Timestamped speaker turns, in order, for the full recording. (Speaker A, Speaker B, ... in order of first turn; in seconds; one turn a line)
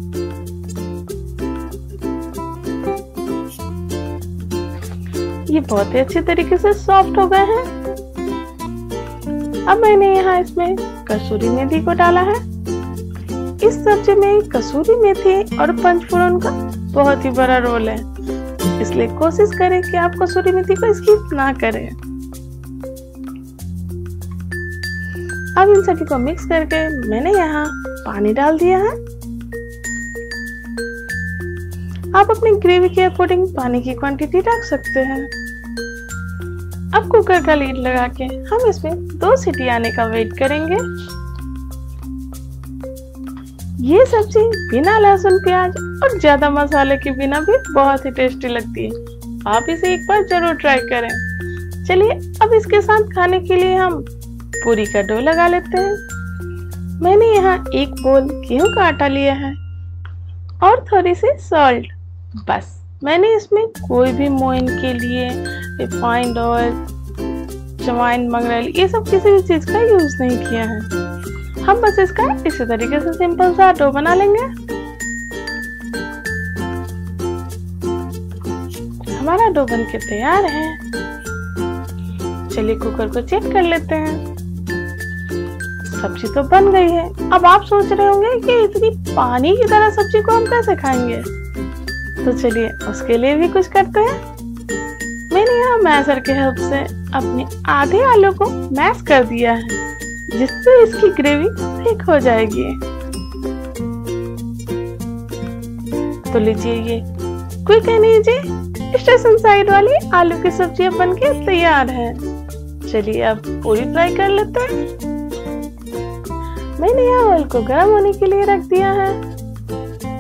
Speaker A: 5.5-7.7
Speaker A: 9.7-12.4
Speaker A: 13.6-18.1
Speaker A: 18.8-22.0
Speaker A: 25.6-29.0
Speaker A: 32.1-35.3
Speaker A: 36.9-40.8
Speaker A: 43.8-51.2
Speaker A: 51.8-54.1
Speaker A: 54.6-56.0
Speaker A: 57.0-59.6
Speaker A: 60.6-61.9
Speaker A: 62.4-66.8
Speaker A: 67.8-70.9
Speaker A: 71.6-74.5
Speaker A: 79.1-80.8
Speaker A: 82.5-84.2
Speaker A: 85.8-91.3
Speaker A: 92.2-94.2
Speaker A: 95.3-99.8
Speaker A: 100.3-102.8
Speaker A: 106.3-107.1
Speaker A: 107.6-112.2
Speaker A: 112.8-114.8
Speaker A: 116.8-119.2